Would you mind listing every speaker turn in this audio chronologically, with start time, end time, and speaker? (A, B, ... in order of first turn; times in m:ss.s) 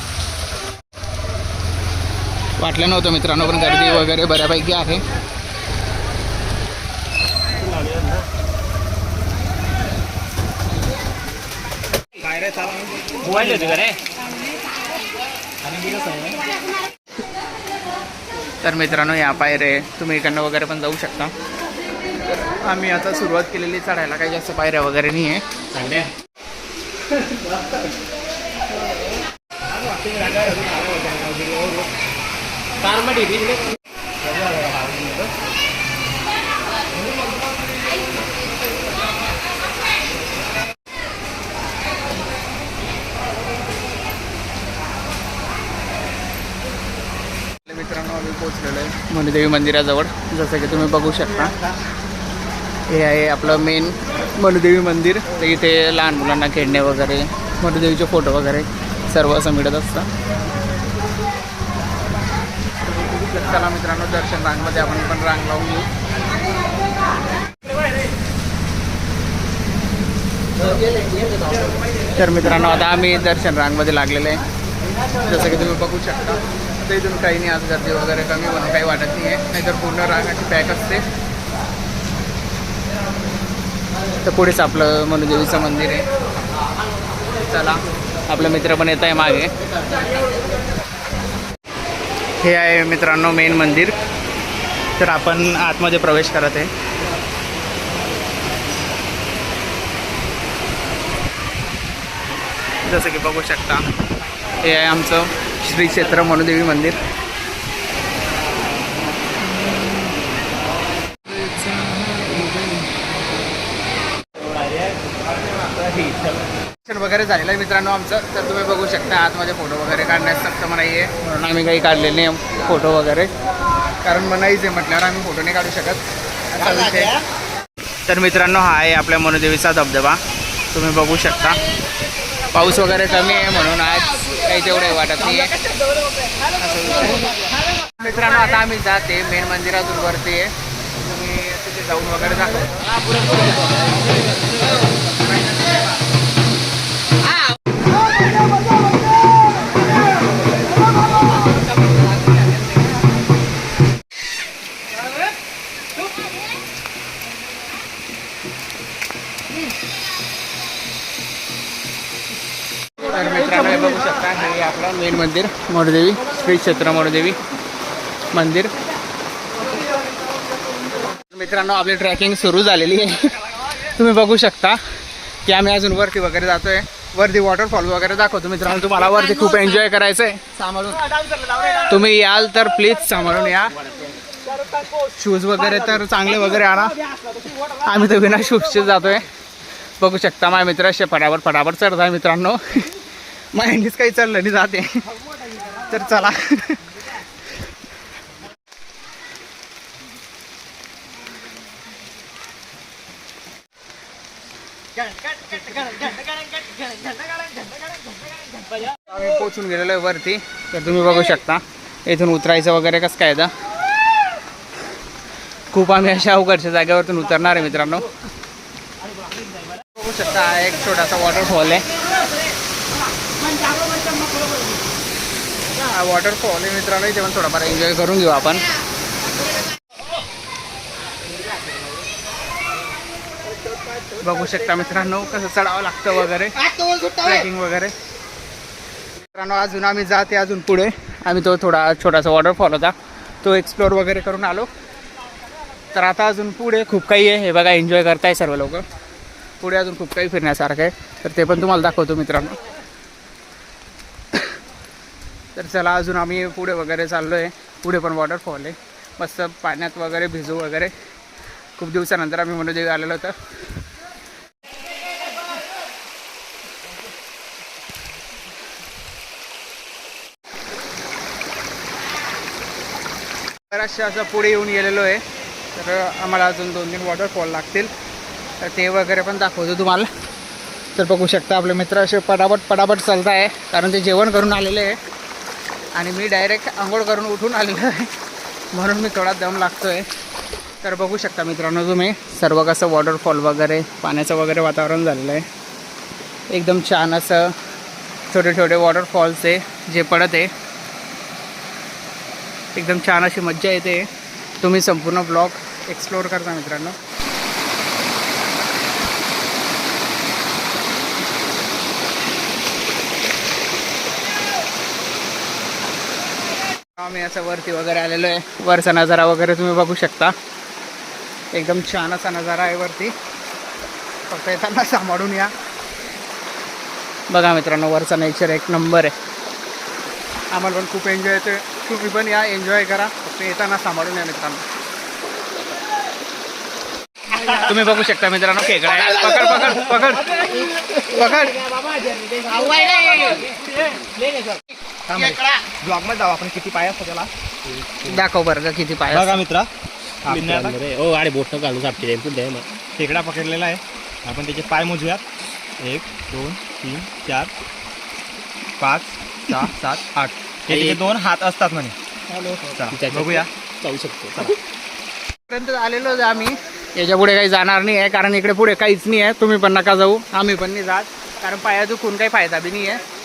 0:02.6-0:05.0 A
0:07.6-0:08.2 B
0:12.2-0:13.8 C
0:13.2-0:14.0 B
0:15.7-0:16.3 B
0:18.6-0:21.3 A
0:22.2-0:25.4 A
0:25.7-0:26.1 B
0:30.1-0:31.6 B
0:32.9-0:33.6 B
0:34.5-0:35.2 B
0:47.6-0:51.6 A
0:52.9-1:00.1 A
1:02.9-1:05.9 A
1:12.1-1:14.4 A
1:15.2-1:21.0 A
1:24.2-1:26.1 A
1:27.4-1:29.9 A
1:32.4-1:33.9 A
1:35.0-1:36.7 A
1:42.8-1:43.8 A
1:44.6-1:47.0 A
1:49.4-1:50.2 A
1:51.3-1:52.9 A
1:56.8-2:03.3 A
2:04.0-2:07.2 A
2:08.1-2:11.6 A
2:12.5-2:15.6 A
2:16.6-2:17.3 A
2:18.0-2:23.4 A
2:43.0-2:47.4 A
2:48.3-2:48.7 A
2:51.2-2:54.8 A
2:55.4-3:01.0 A
3:01.2-3:01.7 B
3:01.7-3:03.9 A
3:04.9-3:07.0 A
3:07.6-3:09.3 A
3:10.0-3:13.0 A
3:13.5-3:14.9 A
3:15.7-3:17.0 A
3:25.7-3:27.8 B
3:29.0-3:33.5 A
3:35.7-3:38.1 A
3:40.0-3:41.8 A
3:45.7-3:48.6 A
3:54.2-3:57.9 A
3:59.3-4:04.7 A
4:05.9-4:08.8 A
4:09.6-4:12.6 A
4:15.6-4:20.9 A
4:21.8-4:23.4 A
4:33.7-4:35.2 A
4:35.8-4:37.9 A
4:38.6-4:40.1 A
4:41.0-4:45.0 A
4:46.0-4:48.1 A
4:48.7-4:50.1 A
4:50.8-4:55.4 A
4:56.5-4:57.5 A
4:58.3-5:00.5 A
5:02.7-5:04.1 A
5:04.6-5:07.0 A
5:17.0-5:20.3 A
5:21.5-5:23.1 A
5:24.3-5:25.5 A
5:27.3-5:29.1 A
5:30.5-5:34.6 A
5:37.4-5:41.7 A
5:41.9-5:44.6 B
5:42.5-5:43.5 A
5:45.1-5:47.3 C
5:45.1-5:45.6 A
5:48.0-5:49.4 A
5:49.1-5:49.7 C
5:50.2-5:50.8 C
5:50.3-5:52.7 B
5:53.0-5:55.2 C
5:55.8-5:57.5 C
5:58.8-6:02.0 C
6:00.7-6:01.0 B
6:02.5-6:04.6 B
6:02.6-6:03.5 C
6:05.5-6:13.0 A